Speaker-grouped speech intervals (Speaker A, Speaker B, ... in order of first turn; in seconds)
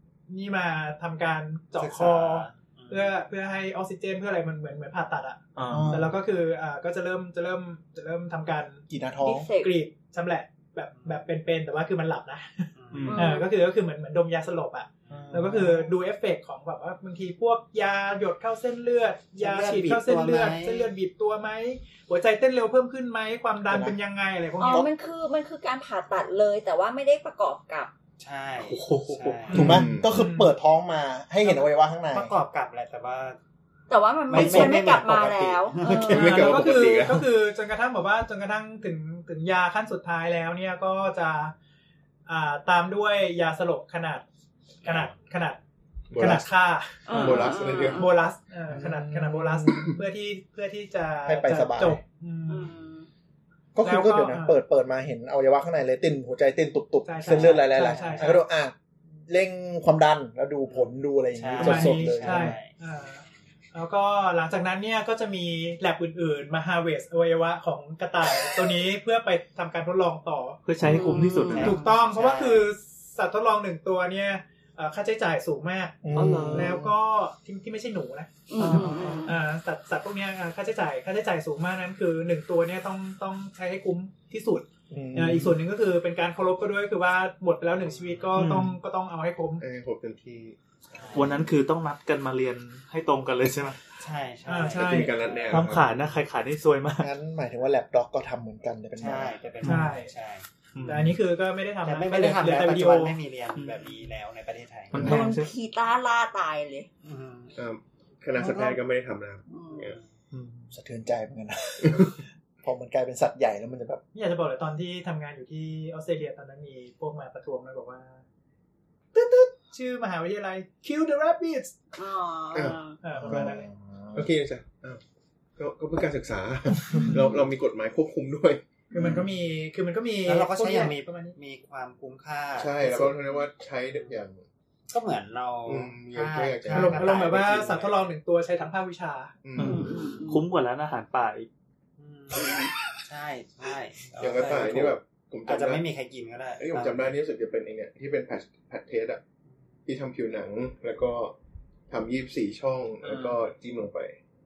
Speaker A: 0.3-8.8, 9.5-24.9, 30.1-30.5, 36.1-41.5, 42.3-44.3, 44.8-45.6, 46.1-52.7, 53.8-54.6, 57.0-58.4, 61.6-70.6, 71.5-89.6, 94.5-95.1, 99.6-100.1, 100.9-103.2, 114.1-118.2, 119.1-121.8, 123.0-123.7, 128.9-131.3, 136.7-139.4
Speaker B: 1.8-3.2, 10.9-11.3, 12.8-13.2, 15.1-15.6, 19.4-20.9, 28.2-29.8, 32.1-33.4, 34.3-36.4, 57.2-58.4, 60.6-63.4, 71.5-72.7, 87.8-88.4, 90.9-91.5, 94.0-95.6, 99.0-100.5, 101.8-105.2, 107.0-107.6, 108.3-108.8, 130.3-134.2, 134.9-138.1, 142.0-147.2
Speaker C: 5.6-6.0, 12.9-13.3, 15.1-15.6, 28.6-29.8, 70.7-71.8, 76.1-76.8, 78.7-79.3, 88.3-88.8, 91.1-93.8, 95.5-97.1, 99.6-100.0, 100.7-101.2, 103.6-104.1, 104.9-105.5, 110.3-110.7, 139.6-141.5, 153.0-153.4
Speaker D: 5.7-6.2, 8.9-9.5, 23.7-24.0, 29.5-32.3, 34.3-34.8, 48.7-49.9, 51.2-52.0, 53.8-58.7, 59.3-62.6, 76.0-76.9, 78.6-79.1, 84.9-85.6, 97.0-99.4, 110.7-114.0, 123.2-124.3
Speaker E: 9.2-9.8, 13.1-13.5, 24.6-27.9, 33.9-36.5, 47.1-48.1, 52.5-53.1, 70.8-71.7, 78.5-79.3, 105.0-106.9, 109.5-109.9, 122.0-123.0, 139.6-140.4
Speaker F: 29.5-30.1, 35.9-37.2, 46.1-46.5, 47.1-48.0, 49.7-50.0, 89.6-91.3, 94.7-95.9, 107.6-110.0, 111.8-112.1, 122.5-123.6, 124.1-125.0, 125.6-128.6, 132.6-134.4, 135.7-137.3, 139.4-140.0, 144.2-145.8, 146.6-149.2, 149.8-151.3, 151.9-154.2